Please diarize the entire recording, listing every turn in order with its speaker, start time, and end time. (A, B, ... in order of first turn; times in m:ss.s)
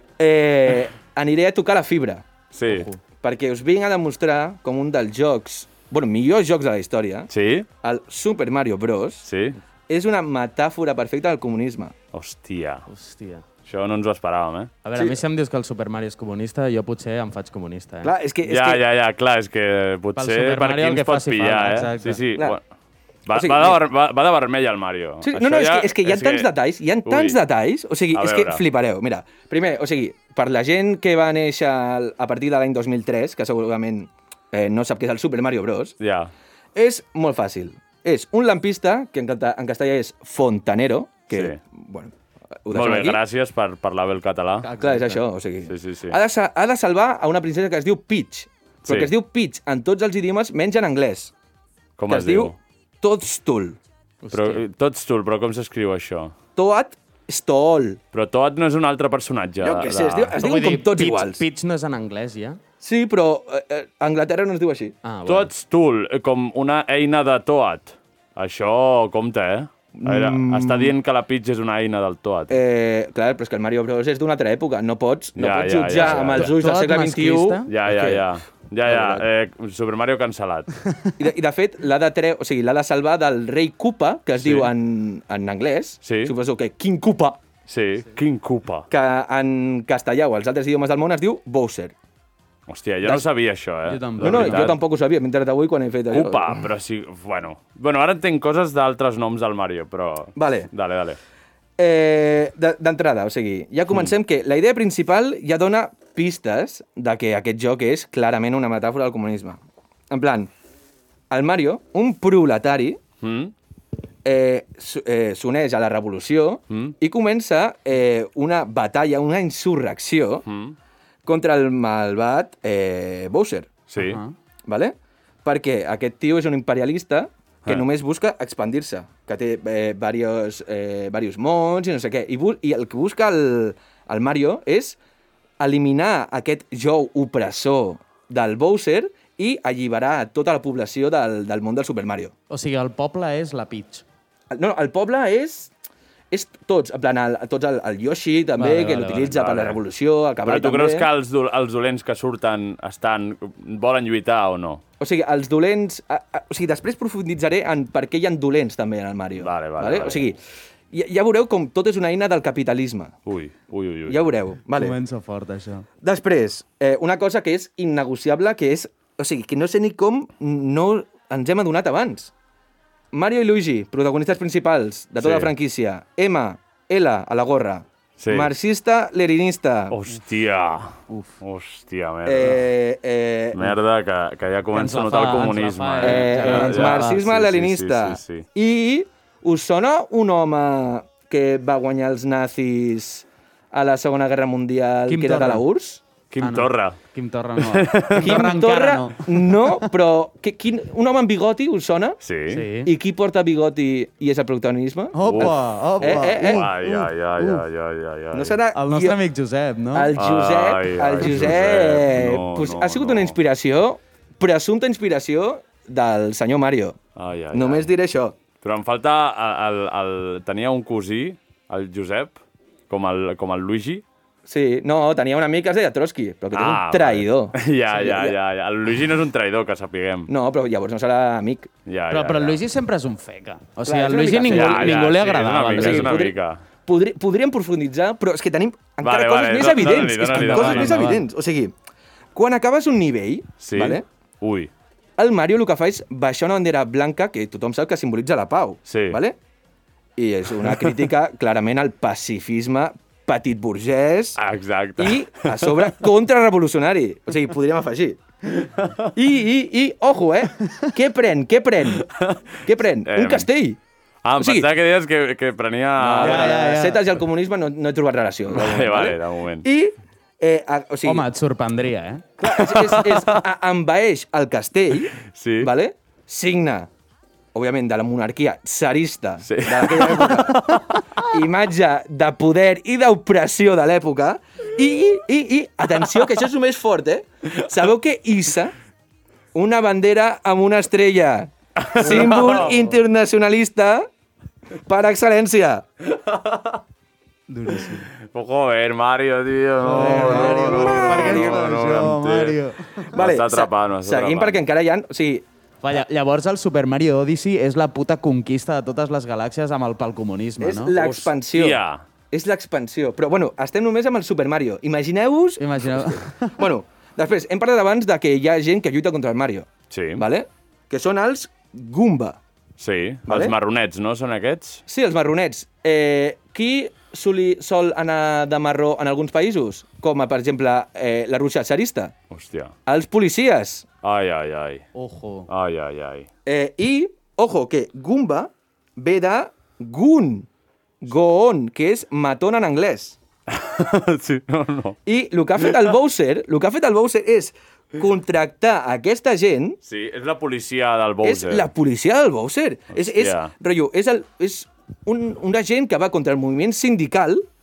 0:00.2-0:02.3 A
0:02.5-0:02.9 B
0:02.7-0:03.0 C
0:03.2-0:07.3 A
0:07.3-0:07.7 B
0:07.8-0:09.3 A
0:09.3-0:09.6 B
0:09.9-0:12.0 A
0:12.1-0:12.8 B
0:12.9-0:13.4 C
0:13.6-0:14.7 B
0:14.8-0:18.1 C
0:18.0-0:18.8 A
0:18.5-0:22.6 B
0:20.2-0:22.2 C
0:23.3-0:26.5 B
0:23.3-0:23.8 A
0:25.2-0:36.0 A
0:27.1-0:27.4 B
0:28.1-0:28.6 B
0:36.0-0:36.3 B
0:36.8-0:42.1 A
0:41.3-0:41.6 B
0:42.6-0:43.2 A
0:42.7-0:44.7 B
0:44.6-0:45.2 C
0:44.8-0:51.3 A
0:45.7-0:46.2 B
0:48.9-0:49.1 B
0:52.0-0:52.6 B
0:52.1-0:53.8 A
0:54.2-0:54.6 C
0:54.3-0:56.3 B
0:56.6-0:58.0 A
0:58.1-1:00.3 B
0:59.6-1:01.4 A
1:00.4-1:02.6 C
1:02.8-1:05.0 A
1:05.0-1:05.5 C
1:05.3-1:12.6 B
1:10.0-1:10.9 A
1:12.5-1:18.3 A
1:15.4-1:16.5 B
1:16.3-1:17.7 C
1:17.7-1:20.7 B
1:18.8-1:19.2 A
1:21.2-1:27.4 A
1:24.4-1:24.7 B
1:26.0-1:26.3 B
1:27.7-1:28.9 B
1:28.9-1:31.9 A
1:32.7-1:34.8 B
1:33.9-1:34.7 C
1:34.2-1:36.6 A
1:36.1-1:41.2 B
1:40.4-1:40.7 A
1:41.8-1:50.5 A
1:51.3-1:53.0 A
1:53.2-1:53.5 B
1:54.2-2:00.4 A
1:56.7-1:57.0 B
2:00.5-2:00.8 B
2:01.2-2:03.8 A
2:03.9-2:04.2 B
2:04.0-2:04.3 C
2:04.7-2:15.0 A
2:15.6-2:22.3 A
2:22.5-2:24.0 C
2:24.5-2:25.7 A
2:26.3-2:31.1 A
2:28.6-2:29.2 C
2:29.2-2:29.8 B
2:30.4-2:34.8 B
2:35.0-2:40.4 A
2:39.4-2:40.3 B
2:40.9-2:43.1 A
2:43.3-2:44.2 B
2:44.1-2:45.0 A
2:44.7-2:45.9 C
2:46.0-2:52.3 A
2:53.1-3:00.0 A
2:55.2-2:55.5 B
2:58.2-2:58.5 B
2:59.9-3:02.6 B
3:01.1-3:01.4 C
3:02.2-3:03.8 A
3:03.6-3:08.5 B
3:04.7-3:07.2 C
3:06.0-3:16.0 A
3:15.1-3:15.6 C
3:16.3-3:17.0 B
3:16.4-3:19.9 C
3:17.6-3:18.5 B
3:18.2-3:22.2 A
3:22.2-3:22.7 B
3:22.5-3:22.9 C
3:22.8-3:26.7 A
3:25.1-3:27.6 C
3:25.2-3:28.6 B
3:28.3-3:29.2 A
3:28.7-3:30.1 C
3:29.9-3:37.0 A
3:30.2-3:33.4 B
3:37.2-3:37.9 B
3:37.5-3:38.4 A
3:38.6-3:44.0 B
3:44.5-3:48.4 A
3:46.5-3:50.3 B
3:50.3-3:51.7 A
3:51.9-3:52.6 B
3:52.1-3:56.1 C
3:53.8-3:55.2 A
3:54.5-3:56.6 B
3:55.7-4:01.7 A
3:59.0-4:01.0 B
4:00.0-4:01.2 C
4:02.4-4:04.0 A
4:03.6-4:04.7 B
4:05.2-4:09.4 A
4:08.9-4:09.2 B
4:10.2-4:14.4 A
4:14.4-4:15.9 B
4:15.0-4:18.2 A
4:18.6-4:19.1 B
4:19.2-4:22.1 A
4:22.0-4:22.4 B
4:22.6-4:23.8 A
4:23.1-4:23.5 B
4:24.2-4:26.6 B
4:24.4-4:24.7 A
4:26.0-4:31.3 A
4:26.2-4:27.0 C
4:28.5-4:29.6 B
4:31.0-4:32.2 C
4:32.4-4:36.9 A
4:32.6-4:33.4 B
4:35.3-4:35.7 B
4:37.5-4:40.5 A
4:39.5-4:41.2 B
4:41.3-4:48.7 A
4:49.6-4:54.1 A
4:51.8-4:52.8 B
4:52.0-4:52.6 C
4:54.9-4:55.8 A
4:56.1-4:56.8 B
4:57.5-4:58.1 C
4:57.8-5:04.6 B
4:59.8-5:03.1 C
5:00.2-5:01.6 A
5:03.1-5:05.4 A
5:05.8-5:10.9 C
5:10.6-5:22.4 A
5:10.9-5:12.0 B
5:15.6-5:16.6 C
5:19.9-5:20.2 B
5:22.8-5:24.8 B
5:23.3-5:23.6 A
5:24.9-5:32.1 A
5:32.3-5:32.7 B
5:32.9-5:33.9 A
5:34.0-5:34.8 B
5:35.0-5:35.5 C
5:35.5-5:36.3 B
5:36.5-5:40.5 A
5:41.0-5:43.2 A
5:43.5-5:45.0 B
5:45.1-5:49.8 A
5:49.9-5:51.7 B
5:51.2-5:57.5 A
5:53.0-5:53.5 B